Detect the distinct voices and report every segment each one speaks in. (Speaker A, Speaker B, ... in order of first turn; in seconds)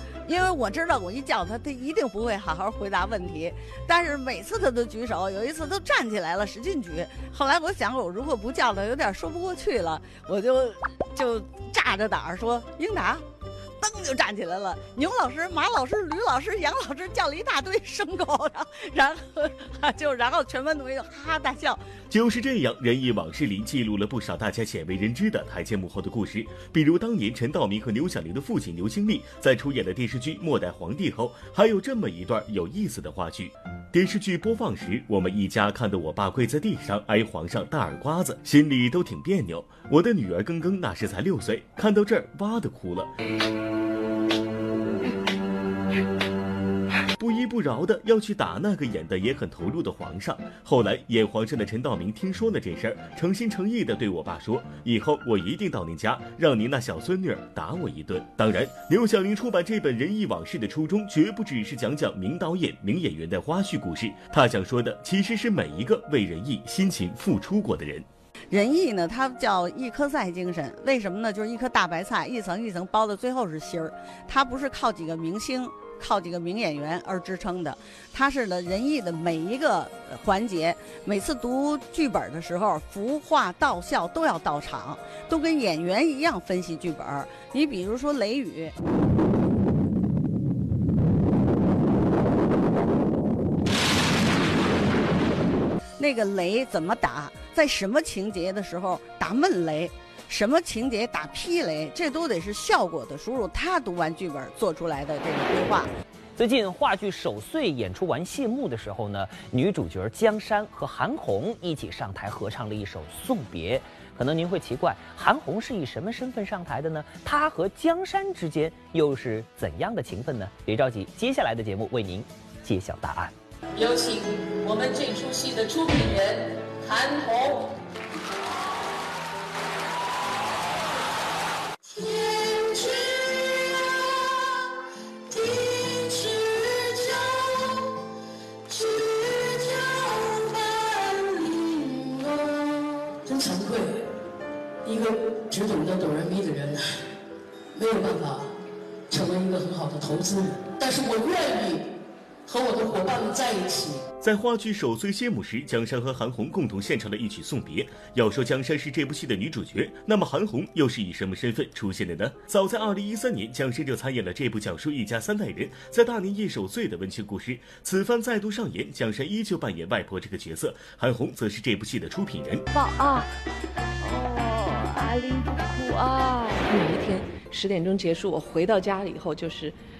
Speaker A: 0.2-13.2, 13.8-21.8, 68.5-88.7, 96.0-105.9
Speaker B: 22.1-43.1, 47.2-68.0, 154.2-172.6
Speaker C: 106.4-123.3
Speaker D: 123.8-124.2, 124.7-127.5, 132.0-133.6, 135.4-137.3, 138.7-142.4, 143.2-144.0, 144.8-146.8, 147.7-148.5, 149.1-151.8, 152.4-154.0
Speaker E: 172.7-173.3, 174.0-179.8